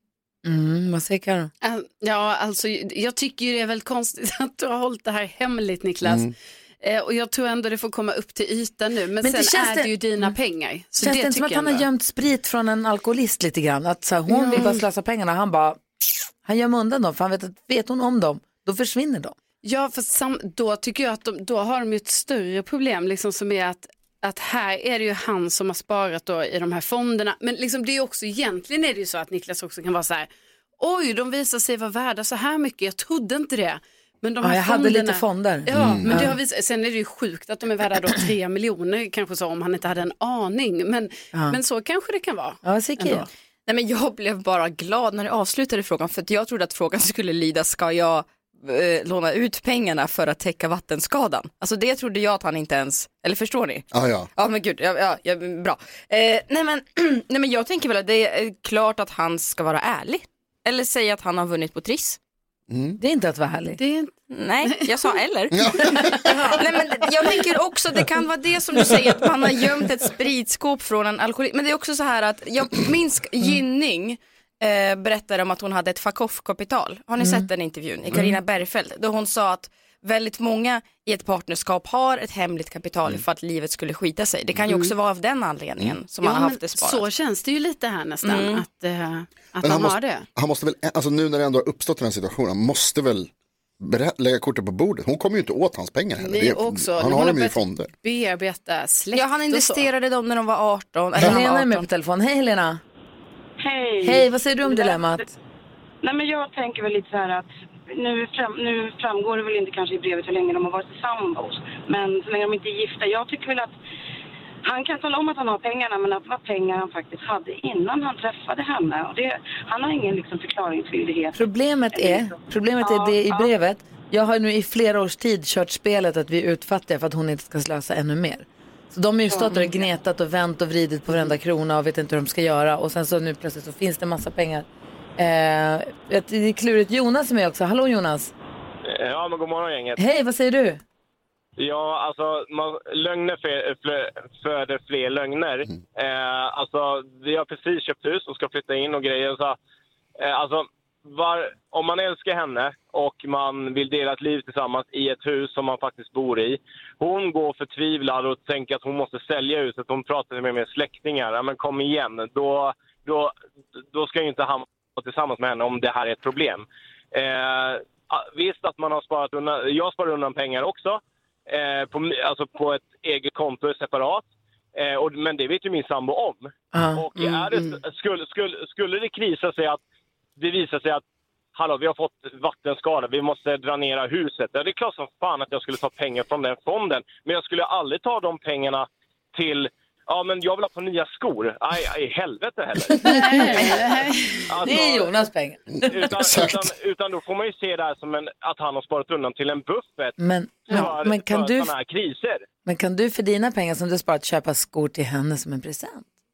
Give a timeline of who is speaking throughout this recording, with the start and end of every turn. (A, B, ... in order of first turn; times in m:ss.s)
0:00.4-0:01.5 A
0:01.6-0:11.8 B
0:06.0-0:06.3 C
0:09.2-0:10.3 A
0:11.0-0:15.8 A
0:14.3-0:14.8 B
0:16.4-0:19.4 A
0:19.6-0:43.3 B
0:34.4-0:36.3 A
0:35.7-0:36.3 C
0:42.6-0:43.2 A
0:43.7-1:02.2 D
0:53.9-0:54.3 C
1:02.7-1:03.0 C
1:03.0-1:03.8 A
1:03.8-1:05.1 B
1:04.3-1:27.1 D
1:05.5-1:06.3 C
1:06.1-1:06.6 B
1:17.2-1:17.5 A
1:24.7-1:24.9 B
1:26.2-1:30.2 B
1:28.2-1:28.6 D
1:29.6-1:37.9 C
1:36.2-1:39.9 B
1:39.1-1:41.9 D
1:41.2-1:42.8 A
1:43.6-1:45.2 E
1:44.0-1:45.3 A
1:46.0-1:53.7 E
1:54.6-2:01.4 E
2:01.3-2:14.7 A
2:01.9-2:03.5 E
2:09.3-2:09.8 E
2:15.2-2:18.3 A
2:18.9-2:20.0 F
2:20.0-2:20.8 A
2:21.6-2:29.6 F
2:30.2-2:43.3 F
2:43.9-2:59.8 F
2:56.7-2:57.0 A
3:00.4-3:01.0 F
3:01.5-3:13.7 F
3:13.0-3:14.4 B
3:13.0-3:14.0 A
3:14.5-3:15.1 F
3:14.6-3:16.0 A
3:15.8-3:16.7 C
3:15.8-3:20.2 F
3:20.2-3:21.7 A
3:20.7-3:22.4 F
3:22.6-3:26.1 A